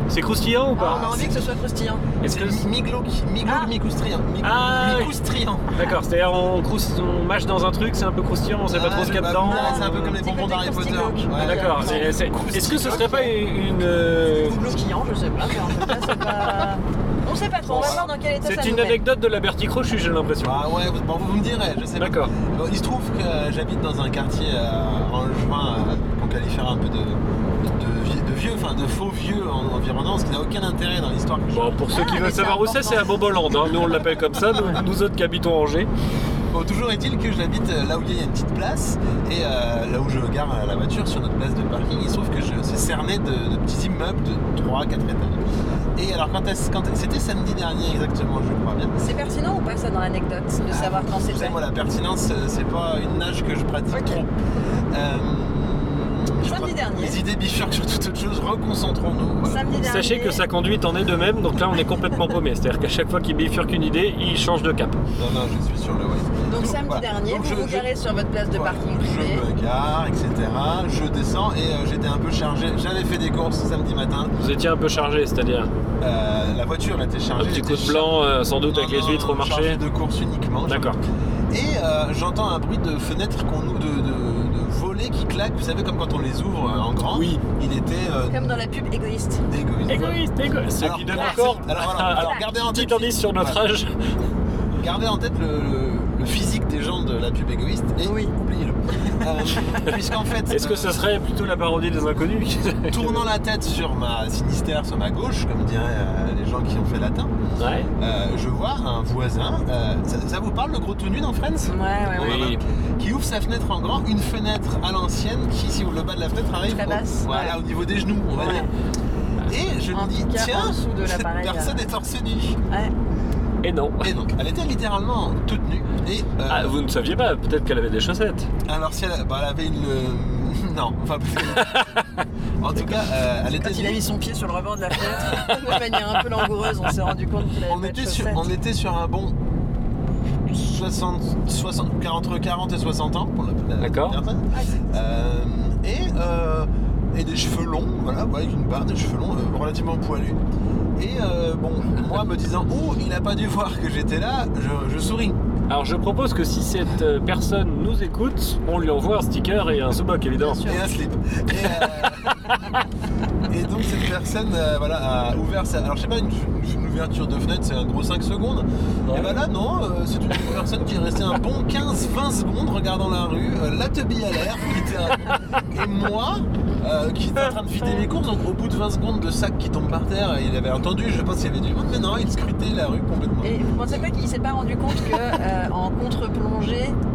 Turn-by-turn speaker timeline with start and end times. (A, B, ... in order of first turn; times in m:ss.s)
0:00.1-0:01.1 A
0:00.8-0:02.0 B
0:00.8-0:01.4 C
0:02.2-0:02.6 A
0:02.2-0:05.7 C
0:03.4-0:03.7 B
0:04.4-0:05.2 A
0:05.7-0:10.1 A
0:08.7-0:13.2 C
0:09.4-0:12.1 B
0:11.4-0:14.7 A
0:12.8-0:13.3 B
0:14.4-0:19.0 B
0:17.7-0:20.7 A
0:17.8-0:18.1 C
0:20.4-0:31.8 C
0:22.0-0:22.3 A
0:31.5-0:35.9 A
0:31.9-0:33.2 B
0:33.9-0:34.8 C
0:36.5-0:48.9 C
0:49.0-0:51.6 B
0:50.7-0:54.3 C
0:53.9-0:54.2 B
0:54.9-0:59.6 C
0:56.4-0:57.2 B
0:59.4-1:00.4 B
0:59.7-1:05.0 A
1:05.2-1:07.9 C
1:06.4-1:09.4 B
1:08.5-1:14.3 C
1:14.4-1:15.7 A
1:16.0-1:21.0 C
1:17.4-1:19.8 A
1:20.7-1:21.0 A
1:21.5-1:28.6 C
1:27.1-1:27.4 A
1:28.3-1:29.4 B
1:29.5-1:30.2 C
1:29.9-1:34.0 A
1:30.7-1:33.6 C
1:31.1-1:31.6 B
1:34.8-1:41.0 C
1:38.0-1:38.3 B
1:40.5-1:43.3 A
1:42.9-1:47.3 C
1:47.6-1:47.9 A
1:48.0-1:58.7 C
1:51.6-1:52.5 B
1:52.2-1:52.6 A
1:56.7-1:57.6 B
1:58.3-1:58.7 B
1:59.4-2:02.6 C
1:59.9-2:01.8 B
2:03.6-2:04.1 A
2:04.0-2:06.8 C
2:06.5-2:08.5 A
2:08.6-2:12.0 C
2:11.4-2:12.2 A
2:12.6-2:14.1 C
2:13.6-2:18.5 B
2:17.6-2:19.4 C
2:20.4-2:30.4 C
2:23.8-2:24.2 A
2:24.5-2:24.8 B
2:31.0-2:35.4 C
2:35.7-2:40.8 A
2:40.4-2:40.7 B
2:40.6-2:42.4 C
2:41.6-2:42.8 A
2:43.5-3:04.0 C
2:49.1-2:49.4 A
3:03.4-3:07.0 B